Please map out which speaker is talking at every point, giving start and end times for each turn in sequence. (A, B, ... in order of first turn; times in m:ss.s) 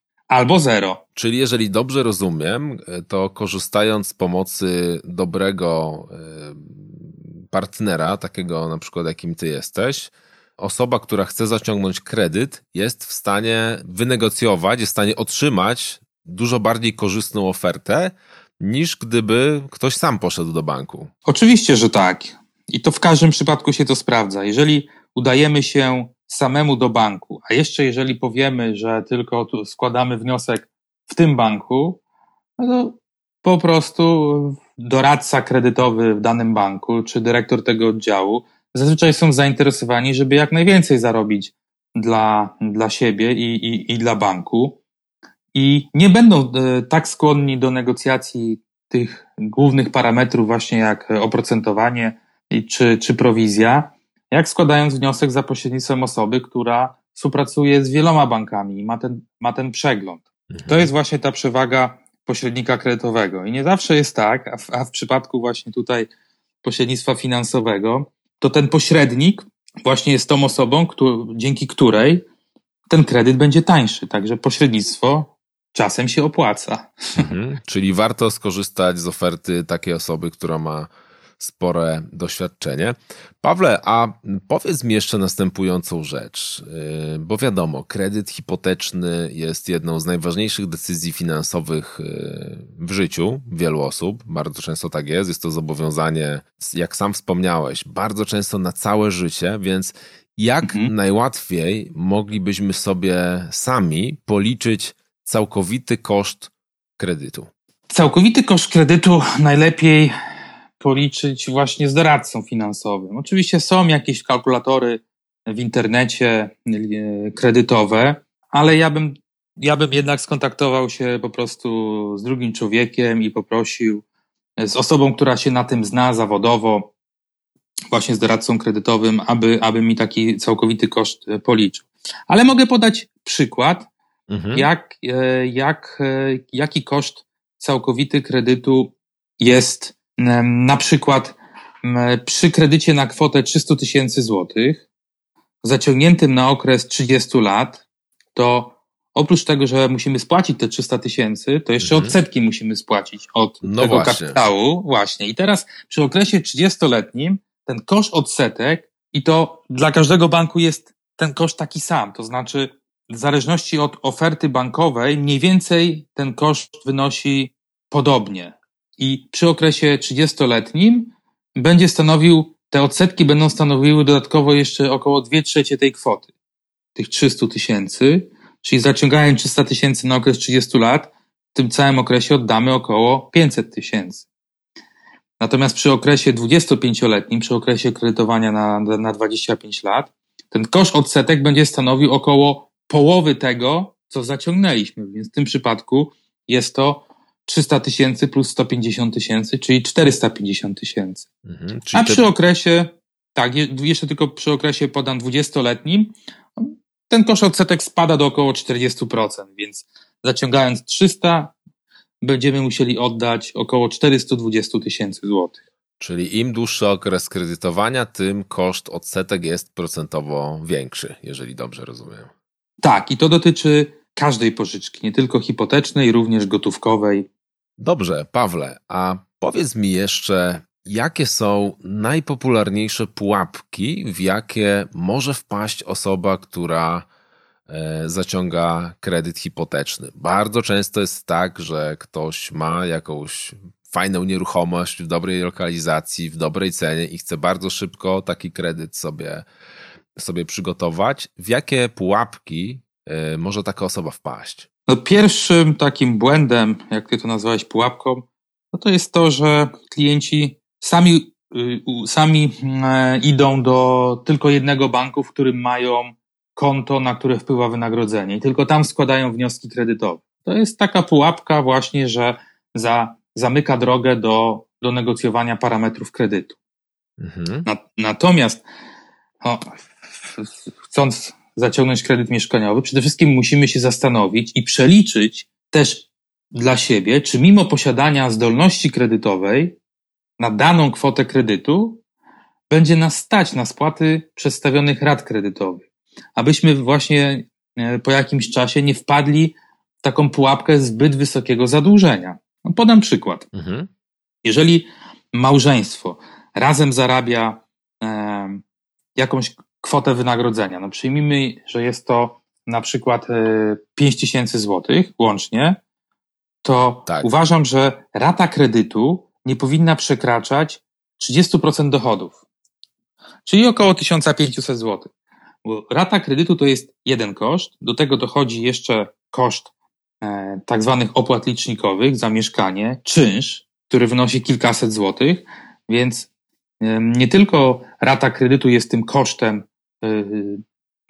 0:00.3-0:01.0 A
0:01.2-0:21.1 B
0:21.3-0:32.0 A
0:32.6-0:44.8 A
0:45.5-1:06.1 A
1:00.5-1:00.9 B
1:06.6-1:12.2 A
1:12.9-1:17.3 A
1:17.2-1:47.5 B
1:40.6-1:40.9 A
1:47.9-1:50.1 A
1:50.8-2:04.0 A
2:04.6-2:06.9 A
2:07.9-2:13.9 A
2:14.3-2:14.7 B
2:14.5-2:24.8 A
2:25.6-2:27.8 A
2:28.4-2:56.3 A
2:31.8-2:32.1 B
2:33.6-2:34.4 B
2:57.0-3:04.2 A
3:05.4-3:21.3 A
3:21.5-3:22.3 B
3:21.9-3:31.5 A
3:32.2-3:35.6 A
3:36.0-3:42.3 B
3:42.8-3:47.3 A
3:47.8-3:57.1 B
3:57.7-4:09.4 B
4:10.2-4:14.7 B
4:14.9-4:36.6 A
4:37.2-4:37.7 B
4:37.6-4:38.6 A
4:39.4-4:49.8 A
4:50.4-4:52.0 A
4:52.7-5:03.4 A
5:03.5-5:03.9 B
5:04.4-5:08.6 A
5:09.2-5:15.8 A
5:16.6-5:22.4 A
5:23.4-5:25.1 A
5:25.6-5:29.7 A
5:30.2-5:36.3 A
5:36.8-5:40.6 A